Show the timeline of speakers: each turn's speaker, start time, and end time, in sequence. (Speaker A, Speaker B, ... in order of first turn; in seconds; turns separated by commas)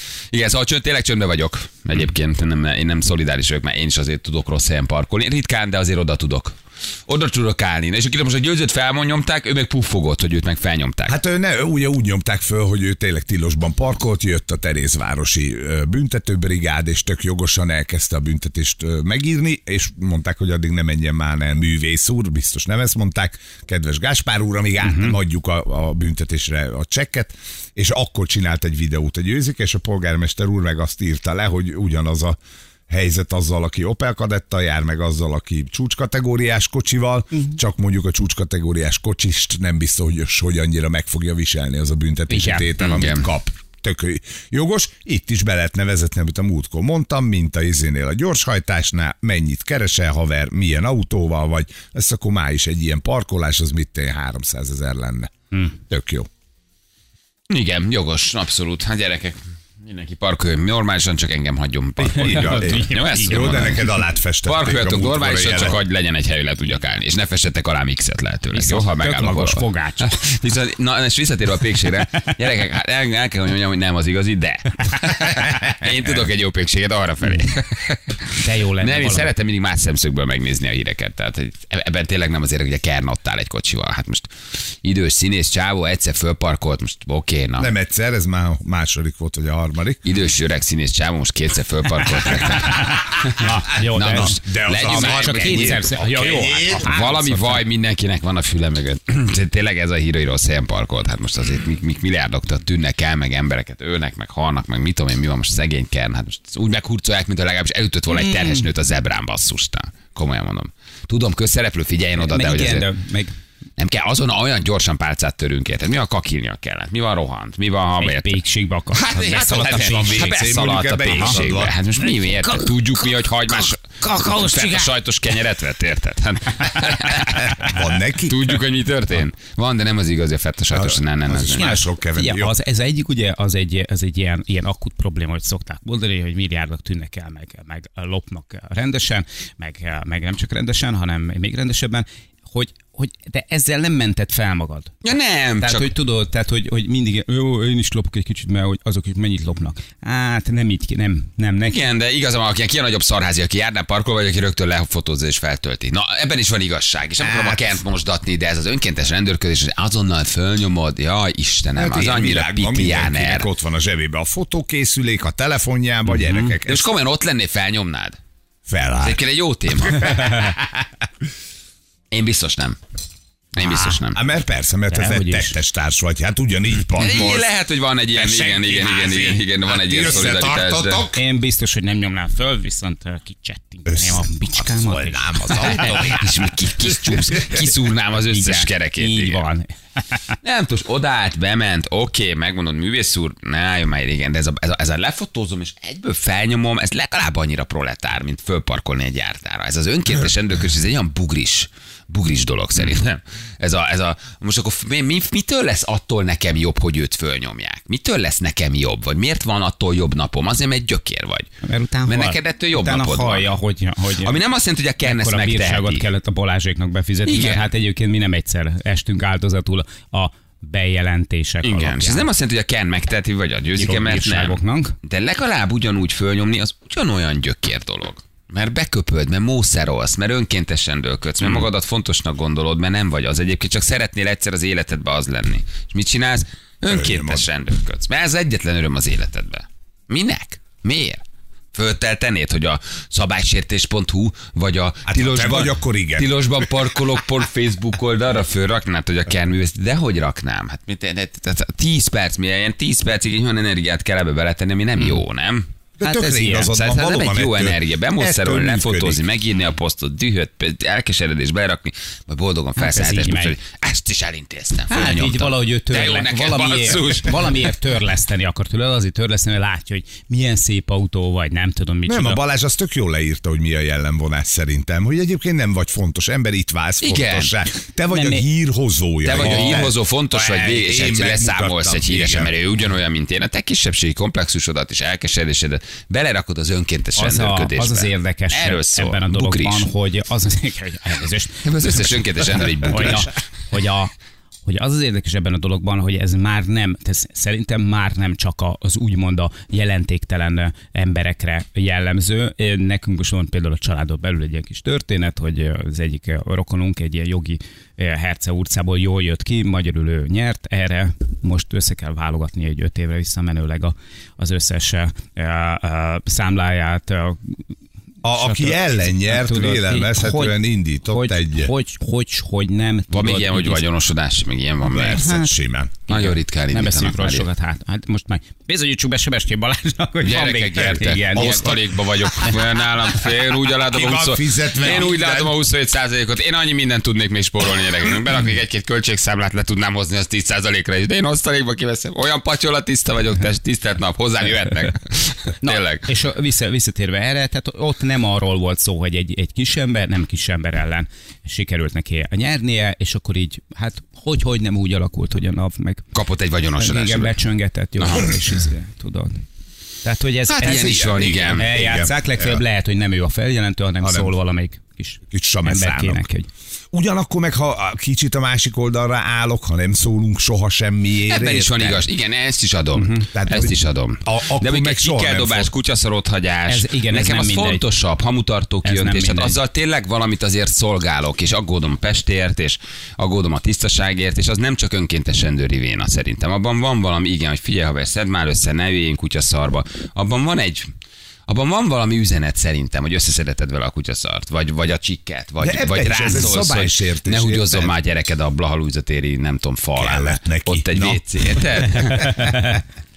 Speaker A: 0.3-11.2, Speaker B: 11.1-32.4, Speaker C: 24.8-25.2, Speaker B: 32.9-56.3, Speaker C: 42.3-42.7, Speaker A: 42.8-43.2, Speaker A: 57.5-63.9, Speaker B: 62.0-65.8, Speaker C: 62.1-63.7, Speaker A: 64.4-87.7, Speaker C: 68.5-70.2, Speaker C: 78.3-79.3, Speaker B: 87.6-90.0, Speaker A: 90.0-112.9, Speaker C: 92.6-97.6, Speaker B: 94.1-96.9, Speaker C: 108.1-108.7, Speaker C: 112.2-113.3, Speaker A: 113.8-118.4, Speaker C: 118.0-121.3, Speaker A: 118.9-131.8, Speaker B: 119.3-121.7, Speaker C: 122.3-124.9, Speaker B: 127.6-128.4, Speaker B: 130.7-132.5, Speaker C: 131.5-144.9, Speaker A: 145.0-145.9, Speaker C: 145.6-151.8, Speaker A: 151.7-163.5, Speaker B: 157.2-157.6, Speaker B: 161.8-166.9, Speaker C: 166.1-166.5, Speaker A: 166.6-168.2, Speaker B: 168.7-169.2, Speaker A: 169.0-170.5, Speaker B: 169.8-170.7, Speaker A: 172.1-172.8, Speaker A: 173.6-174.2, Speaker C: 173.6-173.9, Speaker B: 174.1-177.5, Speaker C: 174.9-175.6, Speaker A: 177.0-181.0, Speaker B: 178.1-181.2, Speaker C: 181.1-185.7, Speaker B: 183.9-187.5, Speaker A: 185.5-189.4, Speaker C: 188.3-190.2, Speaker A: 190.4-211.5, Speaker C: 211.6-214.4, Speaker A: 212.1-213.5, Speaker A: 214.2-216.1, Speaker C: 215.0-222.3, Speaker A: 217.2-217.6, Speaker A: 221.6-241.2, Speaker C: 223.8-224.9, Speaker B: 236.8-237.5, Speaker A: 241.7-255.6, Speaker B: 245.1-246.7, Speaker B: 256.0-259.2, Speaker C: 256.0-256.7, Speaker A: 256.6-267.6, Speaker C: 262.8-263.5, Speaker C: 264.9-272.4, Speaker B: 272.1-282.5, Speaker A: 277.0-277.6, Speaker C: 278.1-278.4, Speaker A: 279.2-289.9, Speaker C: 279.4-279.9, Speaker C: 287.2-291.7, Speaker A: 291.6-293.3, Speaker C: 292.8-294.1, Speaker C: 294.6-317.6, Speaker B: 318.2-321.7, Speaker C: 318.3-323.8, Speaker A: 323.1-325.3, Speaker B: 324.8-326.1, Speaker C: 325.1-325.5, Speaker A: 326.1-327.4, Speaker C: 326.1-331.7, Speaker A: 330.2-346.1, Speaker B: 331.3-332.5, Speaker B: 333.9-335.5, Speaker C: 345.6-356.0, Speaker A: 356.1-357.4, Speaker C: 356.8-359.4, Speaker A: 358.0-358.3, Speaker C: 360.0-366.5, Speaker A: 360.5-361.7, Speaker B: 360.6-362.6, Speaker B: 364.0-364.3, Speaker B: 365.3-366.2, Speaker B: 366.9-372.0, Speaker A: 371.3-390.9, Speaker C: 372.9-373.2, Speaker B: 373.3-375.7, Speaker C: 376.7-377.8, Speaker C: 378.8-379.6, Speaker A: 391.5-402.4, Speaker B: 395.6-397.9, Speaker B: 399.9-402.4, Speaker C: 402.1-402.8